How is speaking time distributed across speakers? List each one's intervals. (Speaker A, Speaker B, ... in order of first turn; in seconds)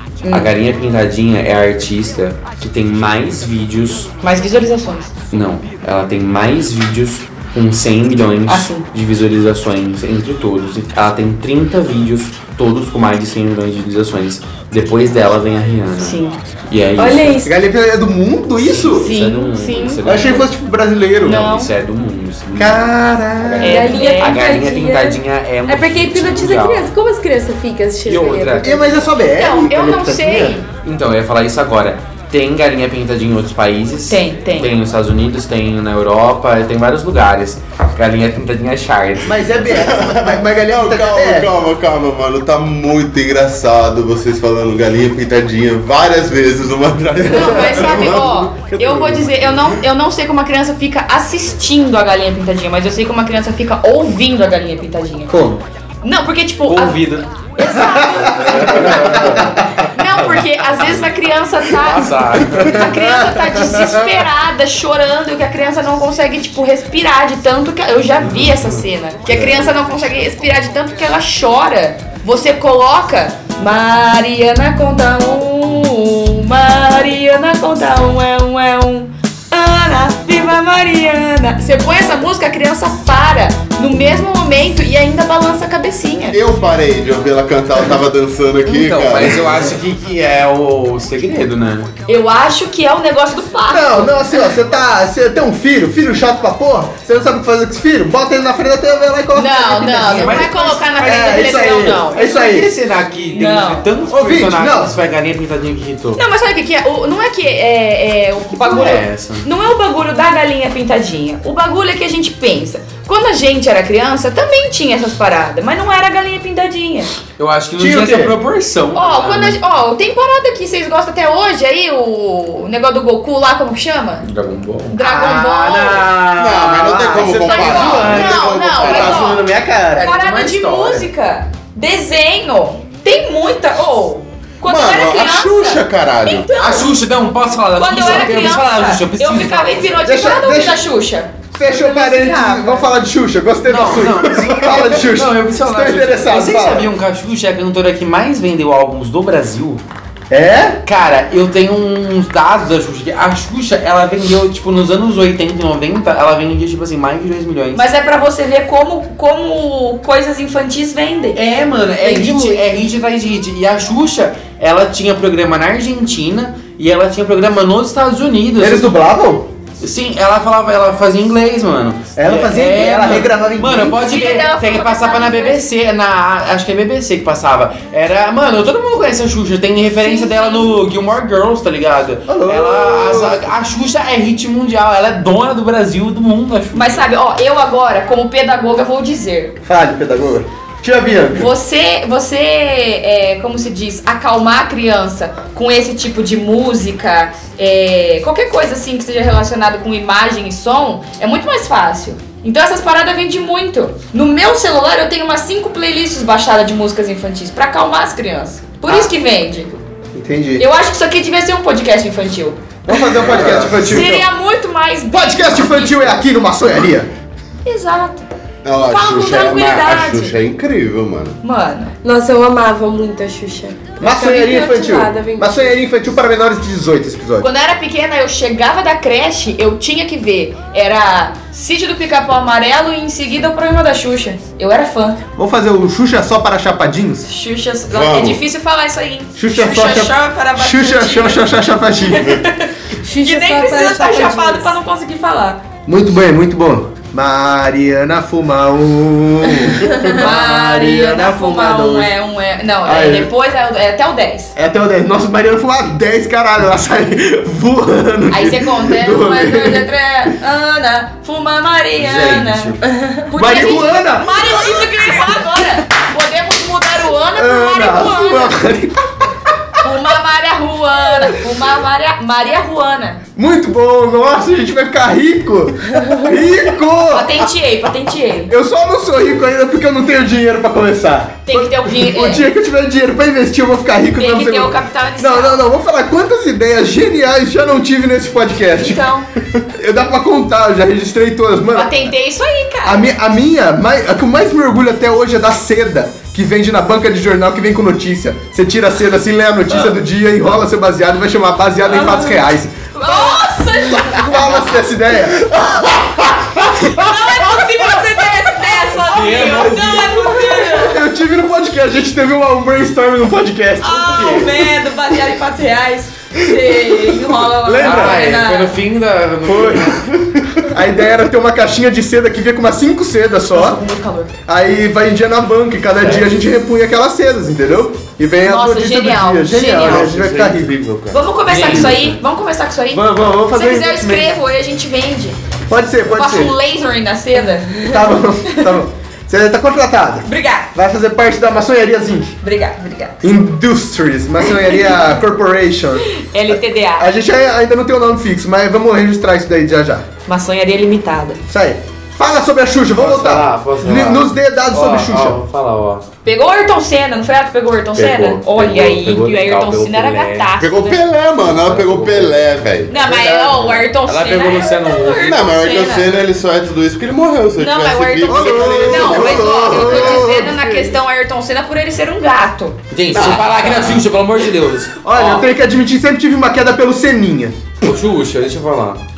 Speaker A: 0.2-0.5, 4.2-5.1, 8.5-8.8, 16.0-16.4, 18.9-20.3, 21.2-21.7, 23.6-24.4, 29.3-30.6, 34.1-34.7, 47.3-55.3, 56.0-57.0, 57.5-59.4, 59.9-86.4, 92.1-94.5, 99.3-102.3, 103.3-103.9, 106.2-117.1, 118.9-124.2, 124.9-126.0, 127.2-129.4, 130.0-136.9, 137.8-142.8, 157.7-161.4, 174.0-175.6, 180.0-180.8, 186.7-189.6, 191.3-209.8, 210.6-212.6, 213.3-216.2, 217.6-218.3, 218.8-220.3, 221.4-221.9, 227.4-235.2, 237.2-241.5, 242.1-242.7, 243.2-245.6, 250.1-254.5, 258.3-268.6, 269.8-273.2, 277.1-278.5, 281.5-282.4, 284.2-285.6, 288.7-289.3, 291.7-293.1, 302.0-302.3, 302.9-304.7, 306.8-311.0, 313.8-318.8, 323.5-324.3, 328.4-330.1, 331.1-335.4, 336.1-337.9, 340.2-340.7, 342.4-343.2, 346.2-347.1, 350.2-351.4, 356.2-361.0, 362.9-366.2, 367.6-373.2
Speaker B: 0.3-4.1, 5.3-17.5, 18.6-20.5, 21.2-26.9, 28.0-28.6, 30.8-39.6, 56.7-61.1, 61.7-62.9, 69.2-69.7, 88.6-91.9, 100.0-101.4, 102.1-106.2, 108.5-109.5, 117.4-119.6, 124.2-128.3, 129.9-131.1, 136.5-140.0, 143.7-149.8, 150.8-157.8, 161.3-168.9, 169.8-187.0, 262.0-262.8, 309.0-310.3, 317.8-320.0, 326.0-326.3, 331.4-332.2, 352.9-356.1, 357.9-360.5, 361.3-362.4, 363.3-365.3, 372.9-375.5, 377.8-379.0
Speaker C: 17.0-17.5, 23.6-29.0, 162.0-162.6, 222.0-225.6, 243.0-244.7, 262.9-263.2
Speaker D: 17.4-19.1, 20.0-21.5, 22.6-23.9, 28.6-30.6, 39.2-41.5, 47.2-47.8, 55.3-55.6, 58.2-59.5, 62.9-63.9, 93.7-102.7, 104.1-104.9, 117.8-118.3, 125.8-130.1, 140.0-140.8, 141.5-146.9, 150.3-150.8, 168.6-169.5, 172.2-174.0, 182.3-183.5, 189.6-191.5, 208.8-209.1, 210.1-210.6, 212.8-214.3, 215.1-217.1, 224.0-227.5, 235.3-237.3, 239.4-242.4, 245.8-252.1, 252.8-253.3, 254.6-259.9, 263.3-265.2, 267.3-269.5, 273.4-277.5, 278.5-289.0, 289.7-292.1, 292.8-305.9, 310.6-314.7, 317.4-318.3, 319.4-320.0, 320.7-323.8, 324.5-330.7, 332.9-334.3, 335.7-336.5, 337.8-342.3, 343.2-350.1, 351.5-355.4, 368.2-371.0, 375.0-377.6
Speaker E: 39.7-48.5, 86.3-89.8, 126.3-129.3, 134.6-136.5, 213.3-213.9, 218.6-221.4, 237.9-238.4, 329.8-331.8, 360.6-363.1, 365.2-370.2